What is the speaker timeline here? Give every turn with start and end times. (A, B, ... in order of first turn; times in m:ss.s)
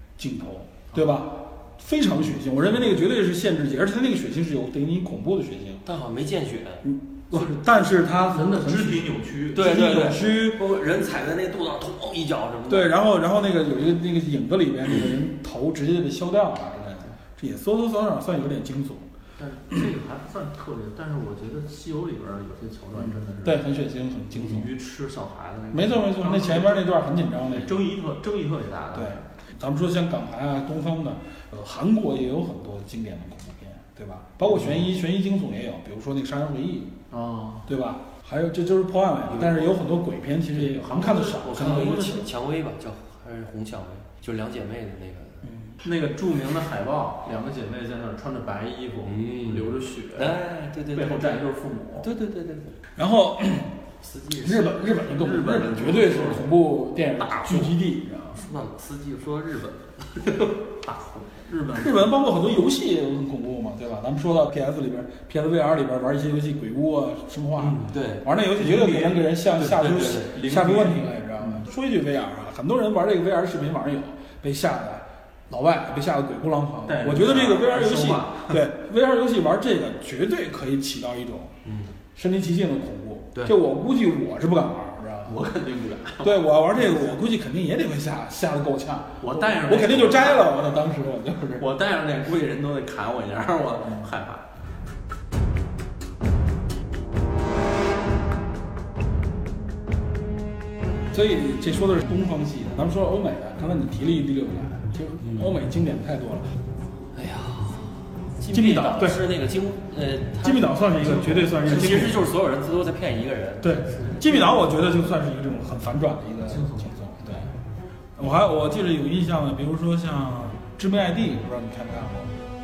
0:00.2-0:05.8 A
0:05.9-0:06.9 B
0:06.8-0:10.6 A
0:07.3-0:10.0 C
0:09.6-0:13.0 B
0:12.7-0:19.1 A
0:19.4-0:23.7 C
0:23.1-0:24.7 A
0:24.3-0:26.9 C
0:25.7-0:27.8 A
0:27.5-0:29.3 C
0:28.9-0:37.0 A
0:34.4-0:34.9 C
0:37.1-0:37.7 C
0:37.7-0:42.1 A
0:39.3-0:39.7 B
0:40.6-0:42.3 C
0:41.1-0:45.4 B
0:45.4-0:45.8 A
0:45.8-0:52.1 C
0:49.0-0:51.5 B
0:52.0-0:52.8 B
0:53.0-0:53.8 A
0:54.0-0:56.5 C
0:54.4-0:58.5 A
0:57.2-0:57.7 B
0:58.3-1:00.2 B
1:00.3-1:02.2 C
1:01.8-1:21.6 A
1:07.6-1:08.2 B
1:08.5-1:11.6 C
1:16.9-1:18.6 C
1:21.6-1:21.9 B
1:22.2-1:25.4 A
1:25.2-1:26.9 C
1:26.2-1:31.7 A
1:29.2-1:30.5 C
1:31.6-1:34.5 C
1:41.1-1:46.5 A
1:47.2-1:54.0 B
1:48.5-1:49.2 A
1:50.4-1:52.2 A
1:51.0-1:52.1 C
1:53.6-1:57.5 A
1:54.0-1:54.5 C
1:56.5-1:56.9 C
1:58.2-2:02.4 A